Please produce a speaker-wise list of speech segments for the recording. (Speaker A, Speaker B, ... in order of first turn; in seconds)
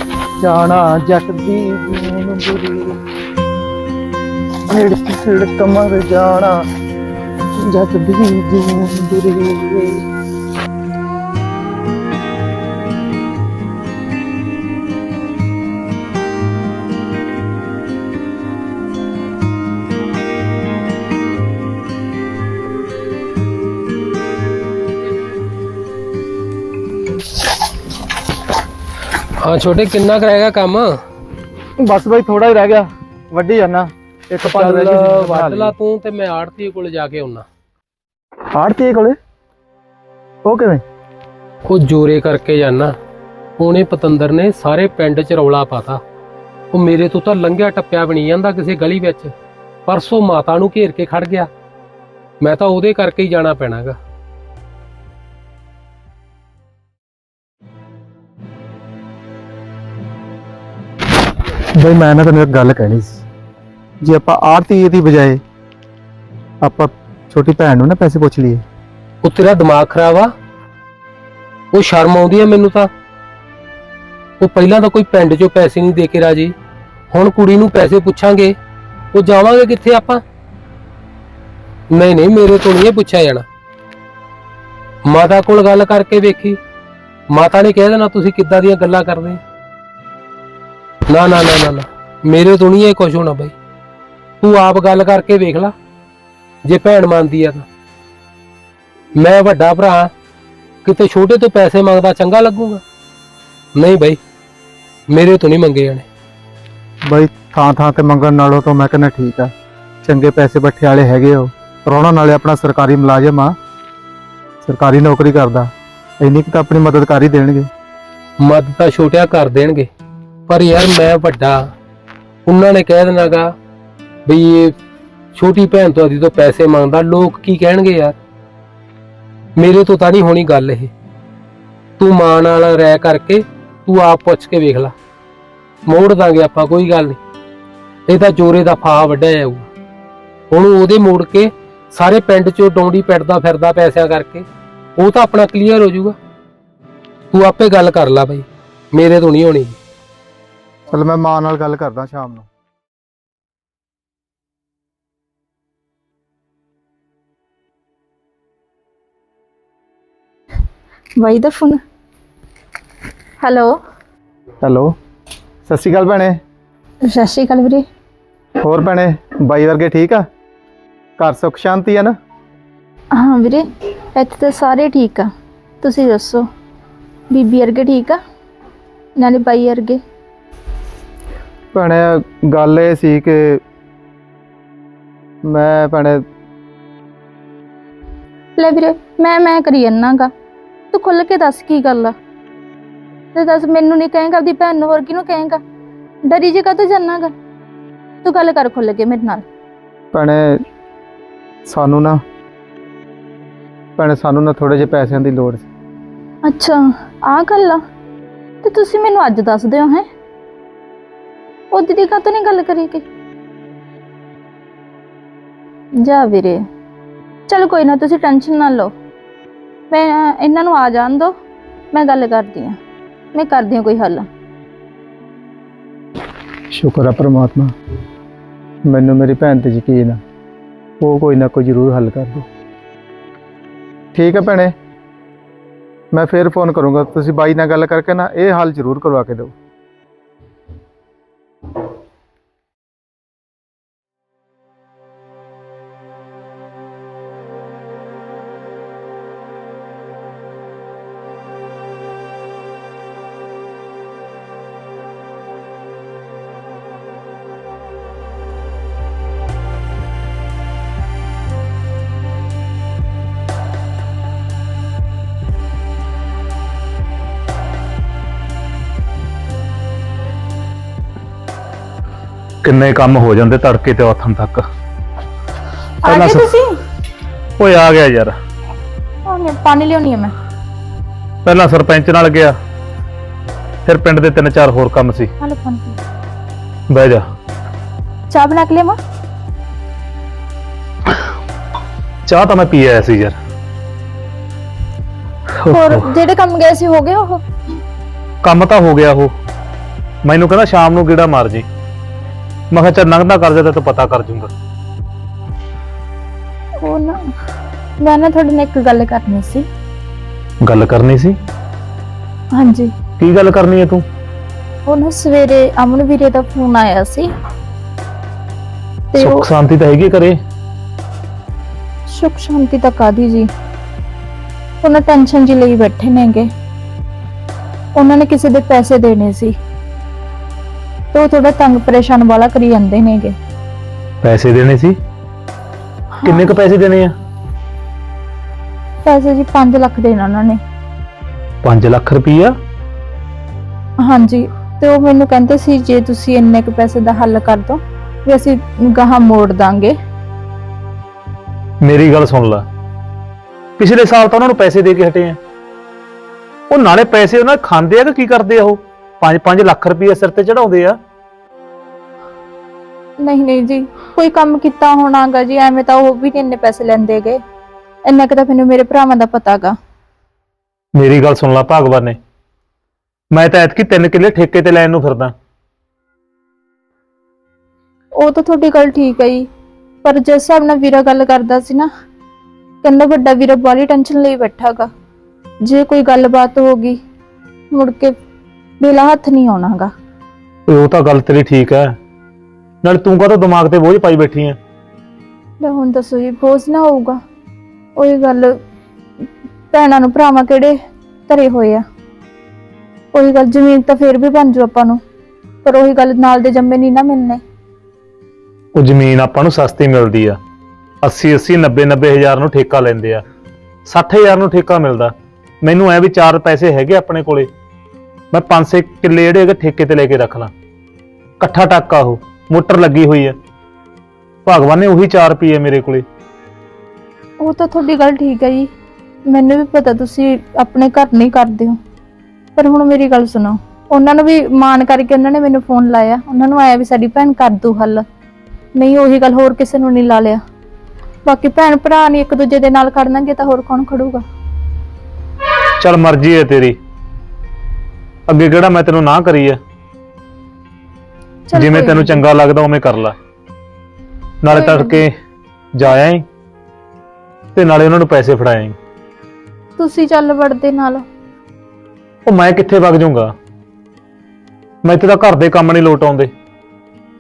Speaker A: 0.4-3.0, 4.7-6.6, 7.6-10.0, 31.8-35.7, 38.5-39.2, 40.5-40.8, 61.8-63.2, 64.0-65.4, 66.6-68.6, 107.1-109.5, 110.0-113.6, 114.6-117.7, 150.9-152.5, 164.6-164.9, 165.7-166.4, 168.6-170.2, 171.2-172.1, 181.7-183.6, 185.4-186.2, 200.1-200.6, 201.7-202.2, 204.0-205.7, 226.7-227.7, 228.9-230.2, 231.0-232.5, 234.2-234.7, 236.1-239.5
Speaker B: 29.4-30.9, 34.4-37.5, 41.7-42.9, 43.6-46.0, 46.7-49.3, 49.9-51.5, 52.4-54.0, 69.2-70.3, 71.7-72.9, 74.4-76.5, 77.1-78.6, 79.1-80.2, 81.9-83.5, 85.1-86.6, 87.3-89.4, 91.1-93.5, 94.4-95.7, 96.7-97.7, 99.2-100.1, 100.8-102.8, 103.8-104.2, 105.1-106.0, 118.4-119.9, 120.5-121.6, 122.5-123.5, 124.3-124.8, 125.3-128.2, 129.6-130.9, 132.0-134.9, 135.9-137.2, 138.1-139.7, 140.5-144.4, 145.0-146.2, 147.3-149.8
Speaker C: 161.2-161.8, 163.4-163.8, 167.1-167.8, 173.2-175.3, 175.8-176.4, 177.3-178.2, 179.2-180.0, 188.6-190.3, 190.9-192.1, 193.3-195.6, 196.3-197.3, 198.2-199.4, 206.5-207.8, 208.6-210.1, 211.7-213.0, 216.0-216.6, 217.5-218.9, 219.9-221.3, 221.9-222.8, 223.3-224.3, 276.0-276.7, 279.2-280.3, 285.4-286.0, 288.3-289.0, 295.7-297.4, 306.8-307.2, 308.0-309.7, 312.6-312.9, 314.9-317.3, 319.1-319.5, 322.1-323.5, 324.8-326.5, 328.0-329.6, 331.1-333.4, 336.2-336.5, 339.1-340.6, 344.0-349.9, 363.2-367.4, 368.1-369.8, 378.2-379.5, 380.0-381.9, 382.8-384.9, 385.6-387.0, 387.7-388.1, 388.8-389.9, 395.6-397.2, 398.0-398.6, 399.7-400.8, 401.3-401.8, 403.1-405.0, 405.6-407.4, 427.4-428.7, 429.3-431.8, 432.6-438.0, 438.8-440.4, 441.2-444.2, 451.5-452.2, 454.5-455.0, 459.8-461.1
Speaker D: 272.6-274.6, 276.1-276.4, 277.6-278.3, 281.4-282.6, 283.9-285.3, 286.9-287.2, 292.3-293.4, 295.6-296.1, 298.4-299.3, 300.2-301.7, 302.7-304.5, 310.6-311.4, 313.2-314.0, 319.2-320.4, 334.2-335.0, 336.2-337.1, 341.6-342.5, 351.8-352.6, 353.8-355.4, 356.7-361.0, 371.0-372.2, 373.3-375.3, 390.7-391.9, 392.8-394.6, 408.8-410.4, 411.0-413.2, 413.9-415.1, 415.6-417.5, 418.3-420.5, 421.4-423.4, 424.5-426.1, 445.8-446.8, 448.3-449.6, 451.6-453.1, 454.4-455.1, 455.8-456.2, 457.6-458.8, 462.3-463.3, 464.8-466.3